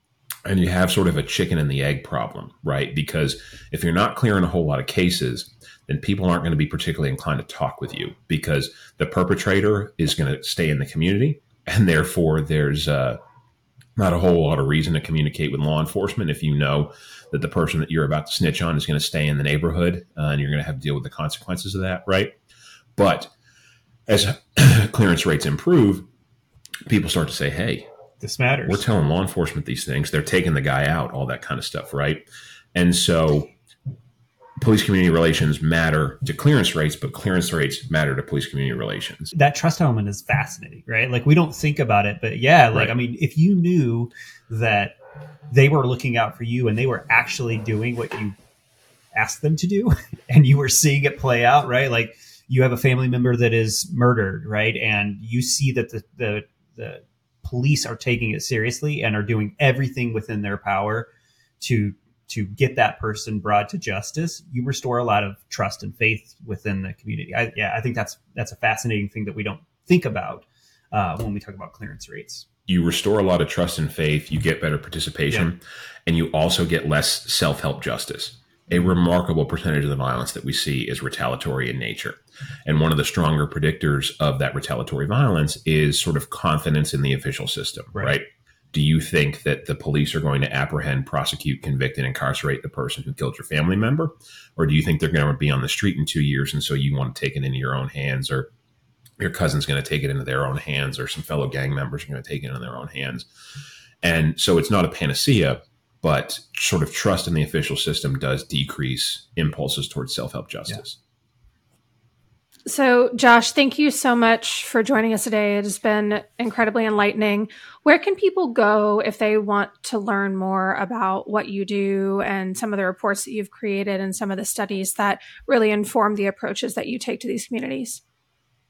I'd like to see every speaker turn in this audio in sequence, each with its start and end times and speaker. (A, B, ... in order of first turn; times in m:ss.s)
0:00.4-0:13.2 A
0:14.0-0:22.3 A
0:23.0-0:23.3 A
0:24.1-0:26.1 A
0:26.9-0:27.9 A
0:28.2-0:28.8 B
0:28.6-0:33.5 A
0:34.6-0:39.3 A
0:39.3-0:45.0 B
0:45.5-0:48.3 B
0:49.1-1:01.1 B
1:01.6-1:12.5 B
1:12.7-1:38.5 A
1:39.2-1:43.3 A
1:44.0-1:51.0 A
1:52.6-2:08.0 C